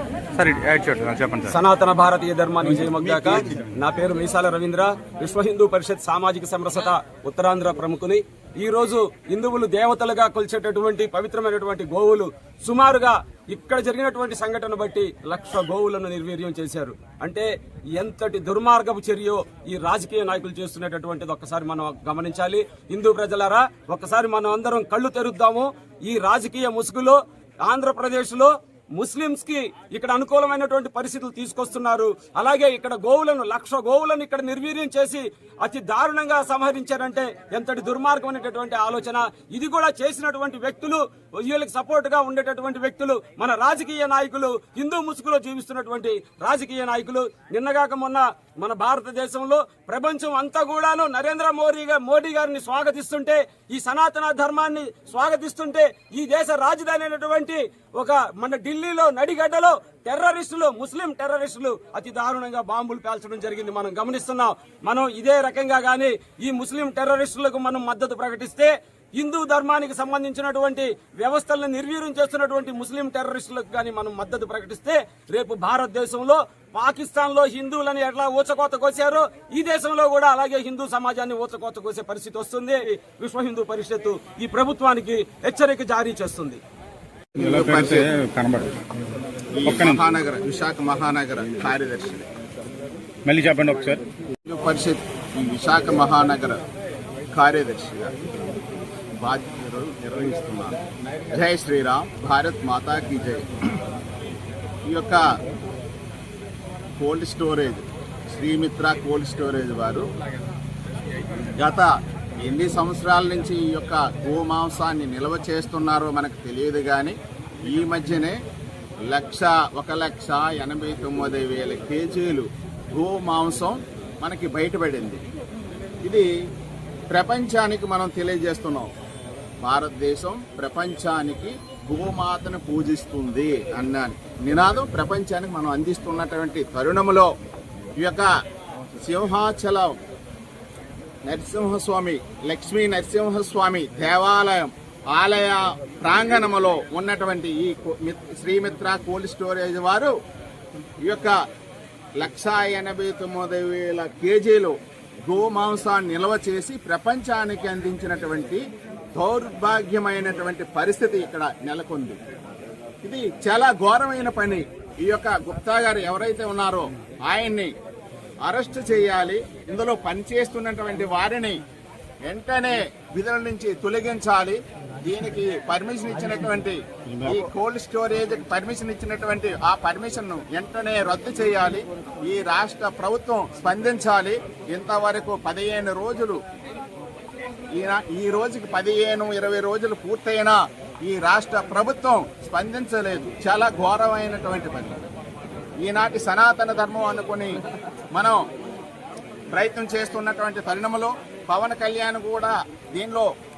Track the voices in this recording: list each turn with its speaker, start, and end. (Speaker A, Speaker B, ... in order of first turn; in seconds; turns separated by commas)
Speaker A: 0.3-1.5, Speaker B: 1.5-86.6, Speaker A: 2.8-3.6, Speaker C: 87.4-88.1, Speaker A: 87.4-88.8, Speaker C: 89.6-92.3, Speaker A: 89.6-90.0, Speaker A: 93.3-94.0, Speaker C: 94.5-96.6, Speaker C: 97.3-98.1, Speaker C: 99.2-100.8, Speaker C: 101.3-103.5, Speaker C: 104.8-105.2, Speaker C: 107.0-110.1, Speaker C: 111.6-111.9, Speaker C: 112.4-117.2, Speaker C: 117.7-118.3, Speaker C: 119.1-125.2, Speaker C: 127.1-128.9, Speaker C: 129.6-137.3, Speaker C: 138.0-138.3, Speaker C: 139.0-140.0, Speaker C: 141.2-150.1, Speaker C: 151.0-151.3, Speaker C: 152.2-158.6, Speaker C: 159.1-162.2, Speaker C: 163.0-167.7, Speaker C: 168.4-171.6, Speaker C: 172.2-186.4, Speaker A: 177.1-177.5, Speaker C: 187.7-195.0, Speaker C: 195.8-197.6, Speaker C: 199.5-203.3